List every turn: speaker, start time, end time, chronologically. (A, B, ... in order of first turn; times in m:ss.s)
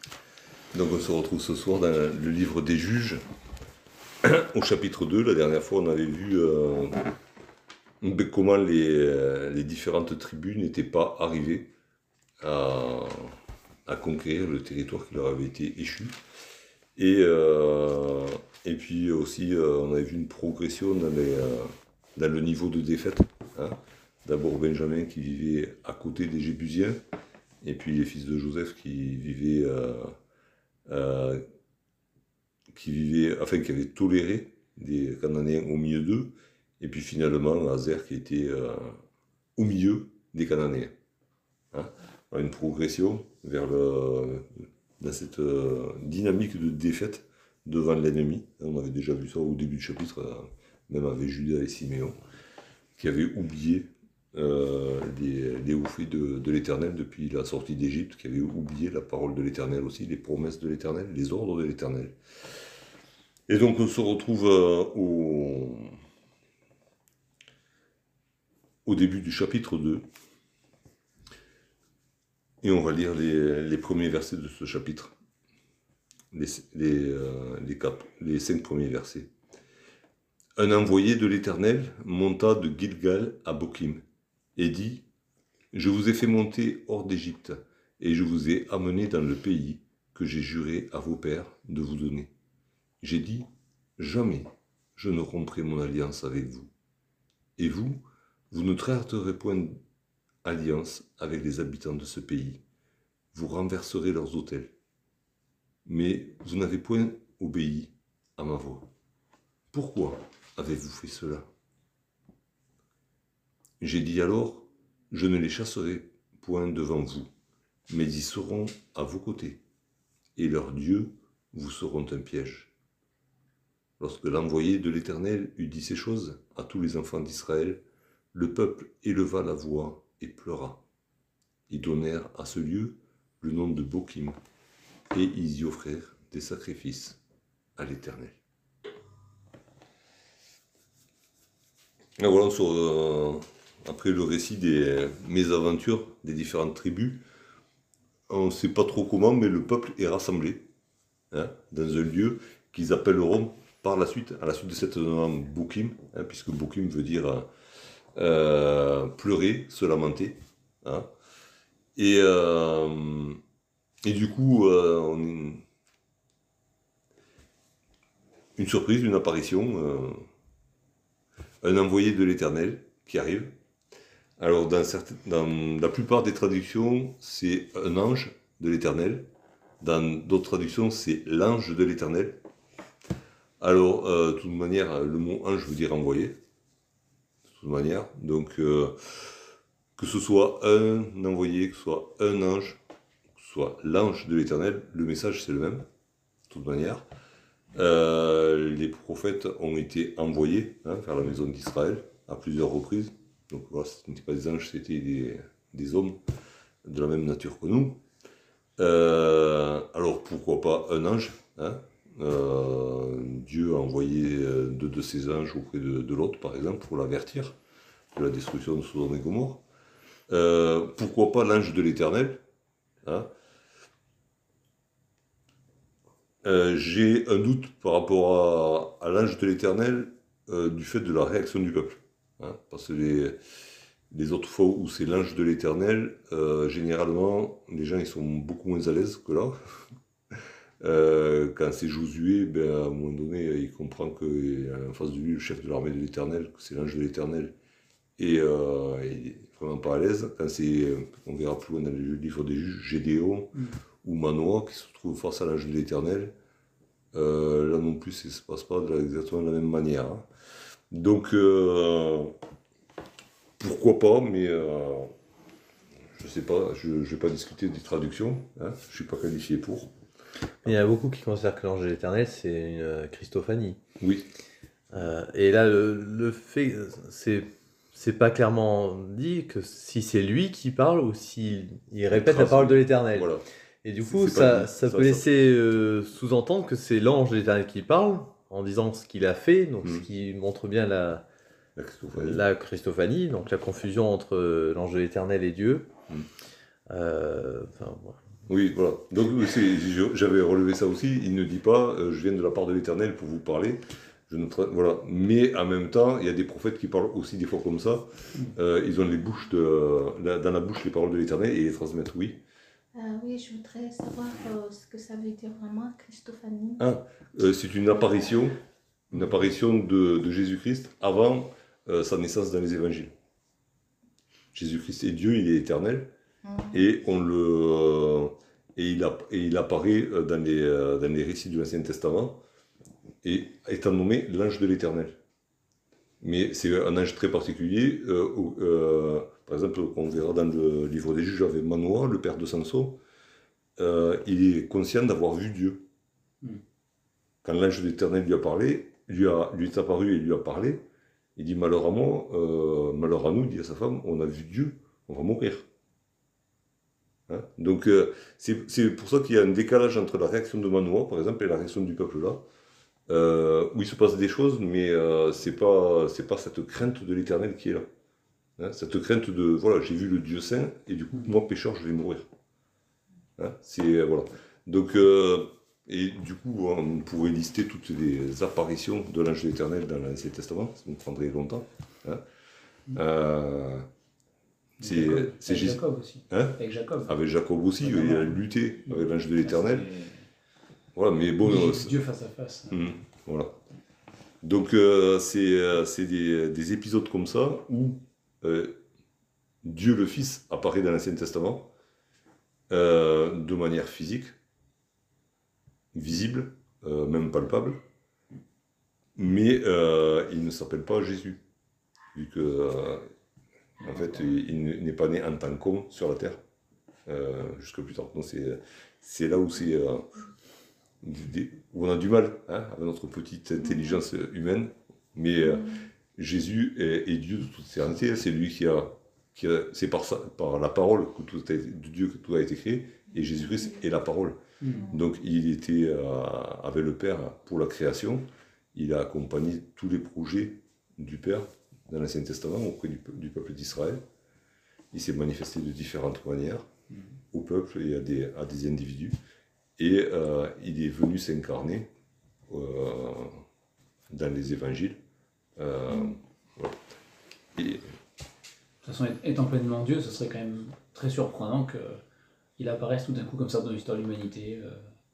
0:00.7-0:03.2 A
0:04.2-0:07.1 A
0:08.0-0:11.7 A
0:12.4-0:16.2 A
0:17.0-0:27.0 A
0:27.6-0:30.1 A
0:30.9-0:31.4 A
0:32.7-0:39.0 A
0:39.6-0:40.9 A
0:41.7-0:52.2 A
0:53.0-1:02.2 A
1:03.5-1:06.0 A
1:08.8-1:10.0 A
1:12.6-1:15.1 A
1:16.3-1:19.3 A
1:20.6-1:24.0 A
1:24.6-1:25.0 A
1:25.7-1:32.3 A
1:33.0-1:33.5 A
1:34.0-1:36.7 A
1:37.6-1:39.8 A
1:40.4-1:42.6 A
1:43.3-1:44.7 A
1:45.8-1:48.9 A
1:49.7-1:51.4 A
1:53.8-1:57.3 A
1:57.9-1:59.6 A
2:00.4-2:02.7 A
2:04.0-2:07.8 A
2:08.3-2:10.8 A
2:11.7-2:14.4 A
2:15.1-2:17.2 A
2:17.8-2:18.4 A
2:22.2-2:27.2 A
2:28.3-2:30.7 A
2:31.3-2:37.5 A
2:38.1-2:41.1 A
2:42.0-2:43.4 A
2:44.0-2:45.6 A
2:48.6-2:50.2 A
2:51.6-2:53.5 A
2:54.4-2:59.3 A
2:59.8-3:02.4 A
3:03.6-3:06.4 A
3:07.5-3:09.4 A
3:10.0-3:12.8 A
3:13.4-3:15.9 A
3:16.5-3:17.0 A
3:17.7-3:26.2 A
3:26.8-3:28.0 A
3:28.8-3:37.6 A
3:38.1-3:39.6 A
3:40.3-3:42.4 A
3:43.0-3:43.3 A
3:46.4-3:53.4 A
3:54.1-3:59.6 A
4:00.8-4:07.5 A
4:08.2-4:16.3 A
4:17.1-4:20.3 A
4:20.9-4:22.3 A
4:23.6-4:25.1 A
4:26.2-4:29.9 A
4:30.6-4:33.8 B
4:34.0-4:34.3 A
4:34.9-4:51.2 B
4:42.1-4:43.4 A
4:44.0-4:45.3 A
4:51.8-4:52.4 A
4:52.1-4:55.9 B
4:56.9-4:58.2 B
4:58.5-5:12.4 A
5:12.9-5:16.9 C
5:16.8-5:18.6 A
5:19.1-5:23.1 A
5:24.5-5:26.1 A
5:26.4-5:26.7 C
5:26.7-5:32.4 A
5:33.2-5:35.2 A
5:36.2-5:43.0 A
5:43.8-5:45.8 A
5:47.4-5:50.8 A
5:51.4-5:55.7 A
5:57.3-6:02.4 A
6:03.1-6:07.9 A
6:08.6-6:12.3 A
6:13.4-6:22.2 A
6:22.9-6:23.8 A
6:24.8-6:27.1 D
6:24.8-6:29.8 A
6:27.8-6:30.2 D
6:30.9-6:32.0 A
6:31.4-6:32.9 D
6:32.7-6:33.6 A
6:34.4-6:38.8 A
6:39.6-6:41.7 A
6:42.7-6:44.3 A
6:45.9-6:47.8 A
6:49.2-6:51.4 A
6:52.1-6:53.1 A
6:53.8-6:56.4 A
6:57.0-7:00.2 A
7:01.0-7:24.0 A
7:14.6-7:14.9 D
7:24.9-7:26.7 A
7:27.3-7:29.2 A
7:29.8-7:31.9 A
7:32.5-7:33.4 A
7:34.1-7:35.0 A
7:35.6-7:36.8 A
7:37.6-7:37.8 A
7:38.8-7:42.0 D
7:42.6-7:44.9 D